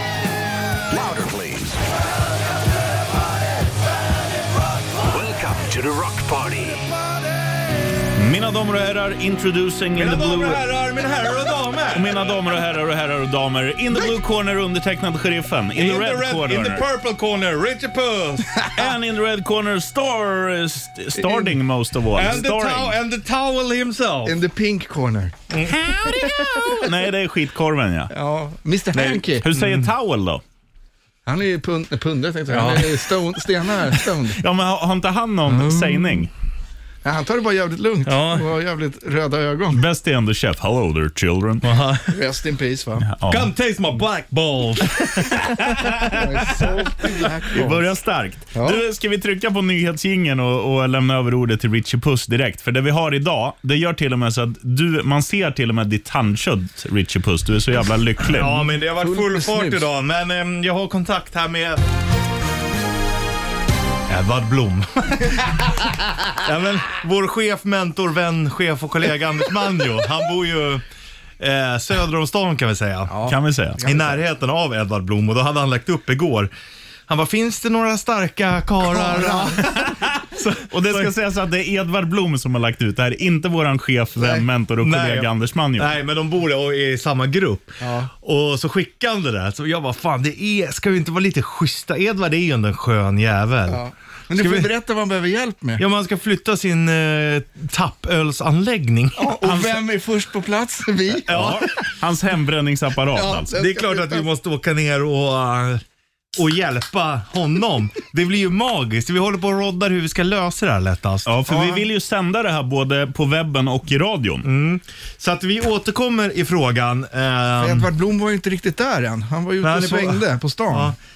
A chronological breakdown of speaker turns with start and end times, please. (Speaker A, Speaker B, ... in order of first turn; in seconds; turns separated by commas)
Speaker A: 0.9-1.8, Speaker A: 5.0-6.9, Speaker B: 8.2-10.6, Speaker C: 9.9-12.3, Speaker B: 11.9-16.9, Speaker C: 15.8-18.8, Speaker B: 18.8-23.0, Speaker D: 21.2-21.6, Speaker C: 22.1-24.4, Speaker D: 24.2-25.4, Speaker C: 25.5-26.6, Speaker B: 25.8-28.1, Speaker D: 28.1-29.5, Speaker C: 28.9-29.9, Speaker B: 29.4-30.4, Speaker D: 31.3-34.4, Speaker C: 32.5-32.9, Speaker B: 34.3-36.3, Speaker D: 35.5-36.3, Speaker D: 37.0-39.8, Speaker C: 38.1-38.5, Speaker B: 39.7-41.6, Speaker C: 41.6-42.1, Speaker D: 42.1-43.1, Speaker B: 43.0-43.5, Speaker C: 43.3-47.3, Speaker B: 45.2-46.1, Speaker D: 46.0-47.9, Speaker B: 47.5-58.7, Speaker D: 48.5-48.8, Speaker C: 58.3-61.8, Speaker D: 59.0-59.8, Speaker C: 64.1-65.5, Speaker C: 66.4-70.8, Speaker C: 71.4-73.1, Speaker D: 73.1-74.2, Speaker B: 73.3-73.8, Speaker C: 73.8-76.5, Speaker C: 77.1-81.1, Speaker D: 78.9-79.6, Speaker B: 80.7-85.9, Speaker C: 84.2-93.8, Speaker D: 87.8-88.1, Speaker D: 93.7-95.8, Speaker C: 94.4-94.7, Speaker C: 95.8-99.4, Speaker D: 99.2-101.6, Speaker B: 99.4-99.8, Speaker C: 101.3-101.7, Speaker B: 101.3-103.5, Speaker D: 103.2-104.3, Speaker C: 103.5-105.8, Speaker C: 106.4-111.3, Speaker B: 111.3-114.5, Speaker D: 111.5-111.9, Speaker C: 114.4-117.9, Speaker D: 117.6-120.9, Speaker C: 119.6-121.0